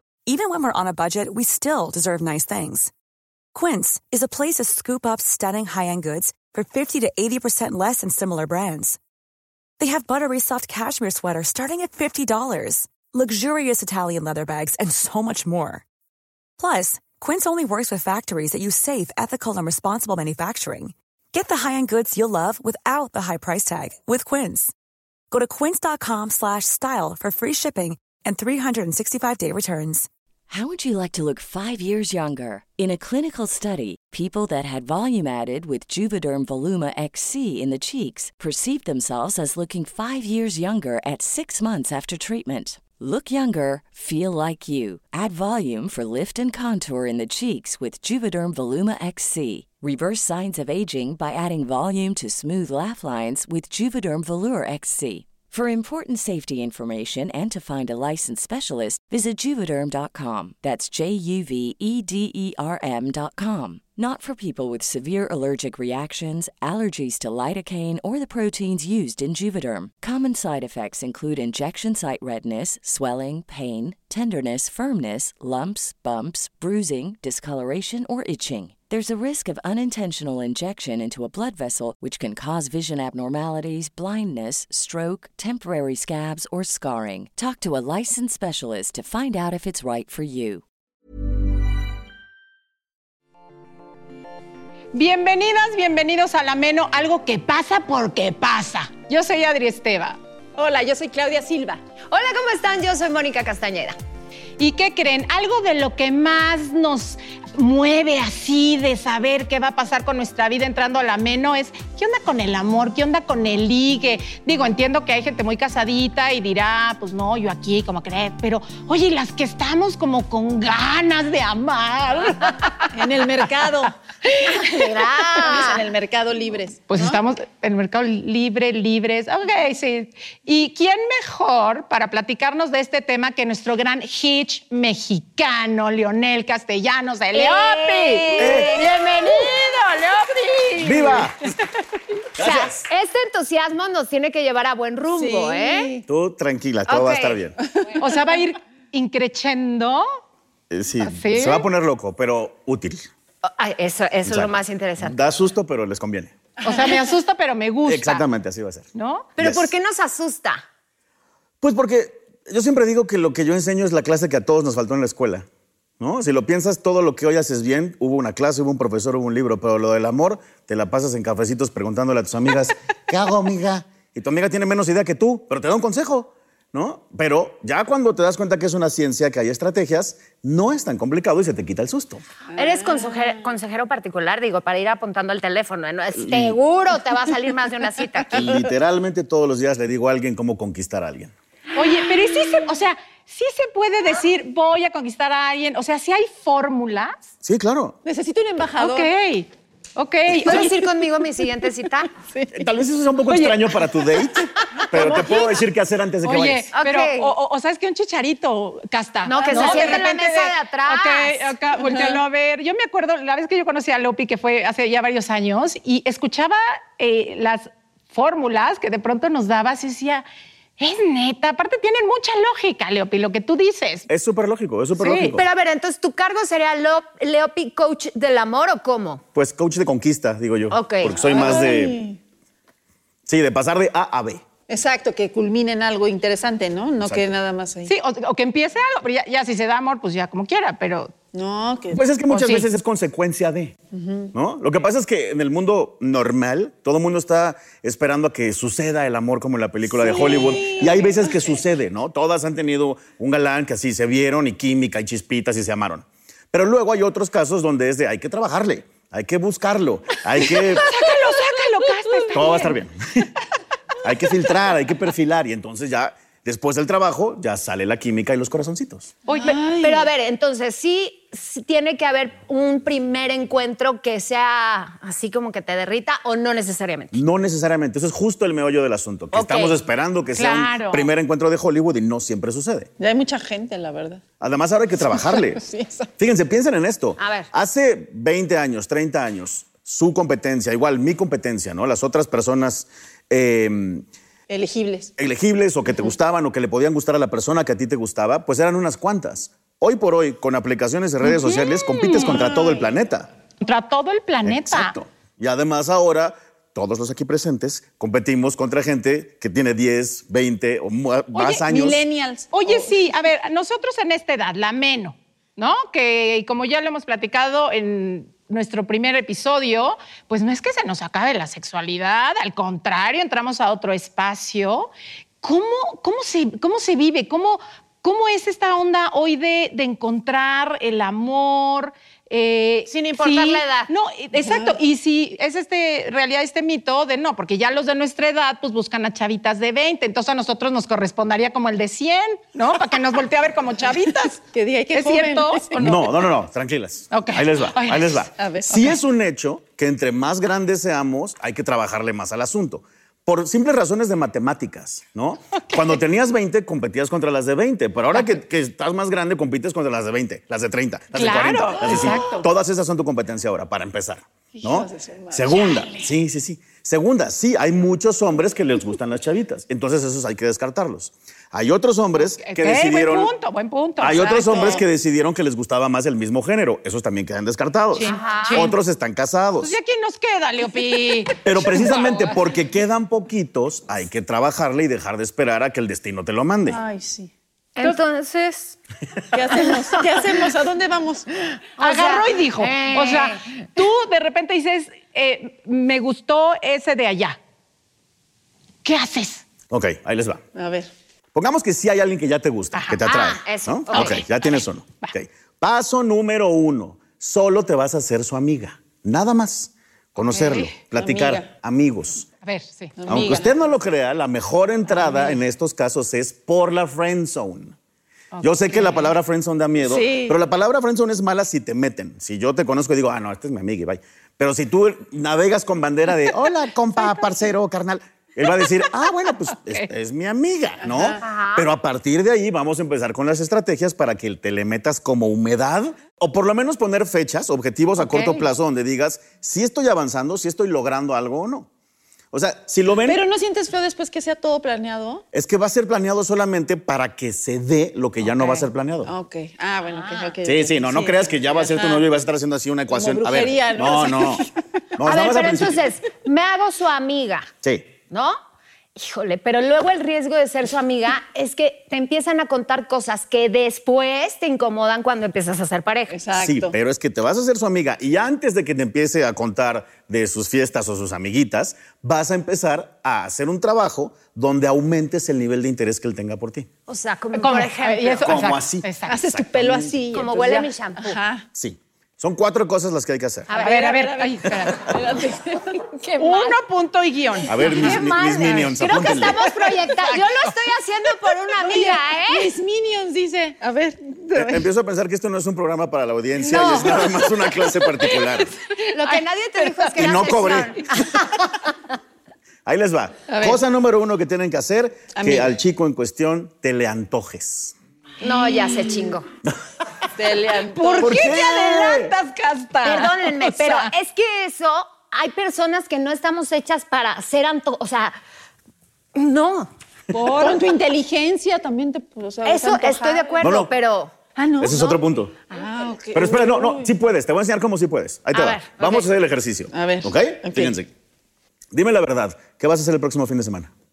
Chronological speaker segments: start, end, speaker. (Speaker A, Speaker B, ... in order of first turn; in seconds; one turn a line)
Speaker A: 0.3-2.9
Speaker A: 3.5-9.0
Speaker A: 9.8-15.8
Speaker A: 16.6-24.7
Speaker A: 25.3-30.1
Speaker B: 30.5-90.6
Speaker C: 94.9-100.2
Speaker D: 100.6-101.8
Speaker E: 102.1-104.0
Speaker C: 104.6-122.9
Speaker D: 122.9-123.9
Speaker E: 124.5-125.8
Speaker D: 125.2-127.2
Speaker C: 126.9-141.3
Speaker E: 137.3-139.8
Speaker F: 138.4-138.9
Speaker F: 140.8-141.4
Speaker F: 142.4-142.9
Speaker E: 142.4-145.9
Speaker D: 145.1-146.1
Speaker F: 146.1-147.6
Speaker E: 146.9-147.4
Speaker D: 147.7-148.1
Speaker C: 148.0-150.1
Speaker F: 150.7-153.1
Speaker C: 151.0-151.7
Speaker E: 153.4-155.2
Speaker F: 154.2-156.3
Speaker C: 156.6-158.2
Speaker F: 157.8-158.9
Speaker C: 158.9-159.3
Speaker E: 159.4-160.6
Speaker F: 159.4-159.7
Speaker F: 161.6-165.5
Speaker F: 166.0-182.2
Speaker D: 182.5-183.5
Speaker E: 182.6-188.5
Speaker F: 186.2-186.6
Speaker F: 188.3-191.3
Speaker C: 191.8-197.2
Speaker F: 197.4-198.0
Speaker D: 198.1-199.1
Speaker C: 198.8-200.7
Speaker D: 200.5-200.8
Speaker E: 200.5-202.1
Speaker D: 202.3-202.7
Speaker F: 202.5-206.7
Speaker C: 203.3-203.7
Speaker D: 204.2-205.6
Speaker C: 206.2-220.2
Speaker E: 206.7-207.3
Speaker E: 209.2-211.6
Speaker D: 209.3-210.1
Speaker D: 211.8-212.2
Speaker C: 220.8-224.1
Speaker F: 224.1-225.4
Speaker C: 225.0-225.3
Speaker E: 225.2-229.2
Speaker F: 229.3-232.0
Speaker E: 230.7-231.7
Speaker D: 231.2-232.2
Speaker F: 233.3-234.4
Speaker D: 234.7-237.9
Speaker F: 237.0-237.3
Speaker C: 237.9-241.1
Speaker D: 241.3-242.0
Speaker F: 241.9-243.8
Speaker C: 242.3-242.7
Speaker D: 243.9-244.3
Speaker F: 244.3-260.9
Speaker D: 249.9-251.4
Speaker D: 260.5-261.4
Speaker C: 260.8-262.8
Speaker F: 262.3-263.3
Speaker F: 264.0-269.1
Speaker C: 269.3-269.6
Speaker D: 269.3-270.1
Speaker E: 269.7-277.2
Speaker F: 277.1-282.9
Speaker E: 279.3-279.8
Speaker C: 280.4-281.1
Speaker D: 283.0-284.2
Speaker F: 284.4-285.6
Speaker D: 285.1-286.1
Speaker F: 286.2-294.1
Speaker E: 287.2-287.5
Speaker D: 294.5-295.1
Speaker F: 295.2-303.3
Speaker C: 301.2-302.4
Speaker D: 302.2-302.9
Speaker C: 303.6-304.9
Speaker F: 304.4-312.0
Speaker C: 311.3-311.7
Speaker D: 311.6-313.0
Speaker C: 312.5-324.9
Speaker C: 325.4-346.3
Speaker E: 332.9-333.9
Speaker D: 334.4-334.8
Speaker D: 344.5-345.8
Speaker F: 345.8-373.3
Speaker C: 347.1-348.3
Speaker D: 348.4-348.9
Speaker C: 355.7-356.0
Speaker C: 361.1-362.5
Speaker D: 364.6-365.9
Speaker C: 372.4-374.8
Speaker F: 374.0-379.8
Speaker C: 377.9-378.7
Speaker E: 378.1-378.7
Speaker C: 379.6-382.4
Speaker F: 381.4-386.8
Speaker D: 386.7-387.3
Speaker E: 387.8-388.8
Speaker D: 389.3-391.3
Speaker E: 389.6-390.0
Speaker E: 391.8-393.5
Speaker C: 391.8-397.4
Speaker C: 398.8-399.4
Speaker F: 399.7-400.4
Speaker D: 400.6-400.9
Speaker F: 401.3-412.3
Speaker C: 402.7-403.0
Speaker E: 403.0-404.3
Speaker C: 403.9-404.2
Speaker C: 410.3-410.8
Speaker D: 410.8-411.5
Speaker C: 412.4-413.4
Speaker D: 413.0-413.5
Speaker F: 413.1-417.8
Speaker D: 415.1-415.4
Speaker C: 418.3-419.1
Speaker F: 418.4-441.7
Speaker D: 419.8-420.4
Speaker D: 430.8-431.2
Speaker E: 431.2-431.7
Speaker E: 438.1-438.3
Speaker F: 442.3-443.2
Speaker D: 443.0-445.2
Speaker F: 445.3-449.1
Speaker D: 448.3-452.1
Speaker F: 450.4-455.8
Speaker D: 452.9-454.5
Speaker E: 455.1-457.5
Speaker E: 458.1-458.4
Speaker E: 459.0-466.2
Speaker D: 466.1-466.8
Speaker F: 466.4-476.7
Speaker E: 476.9-478.5
Speaker C: 477.3-479.2
Speaker F: 478.2-480.0
Speaker D: 479.1-481.5
Speaker E: 480.1-481.2
Speaker F: 481.5-483.5
Speaker E: 483.5-483.8
Speaker C: 483.5-484.9
Speaker D: 483.6-485.9
Speaker E: 486.0-486.6
Speaker C: 486.2-488.1
Speaker F: 487.5-489.4
Speaker E: 487.5-492.5
Speaker D: 491.6-494.7
Speaker F: 494.4-498.5
Speaker E: 496.5-497.0
Speaker E: 498.9-501.5
Speaker C: 499.1-500.3
Speaker F: 500.0-500.9
Speaker F: 502.7-507.8
Speaker D: 503.3-503.6
Speaker D: 505.1-505.5
Speaker E: 508.2-509.3
Speaker D: 510.2-511.3
Speaker C: 510.7-513.9
Speaker F: 511.0-512.1
Speaker E: 512.8-518.2
Speaker E: 519.1-519.7
Speaker C: 520.1-520.6
Speaker D: 520.1-523.6
Speaker E: 522.4-524.2
Speaker F: 523.4-523.7
Speaker D: 524.4-526.9
Speaker F: 524.6-525.4
Speaker F: 526.1-530.9
Speaker E: 528.3-529.1
Speaker D: 529.7-530.8
Speaker F: 531.7-533.7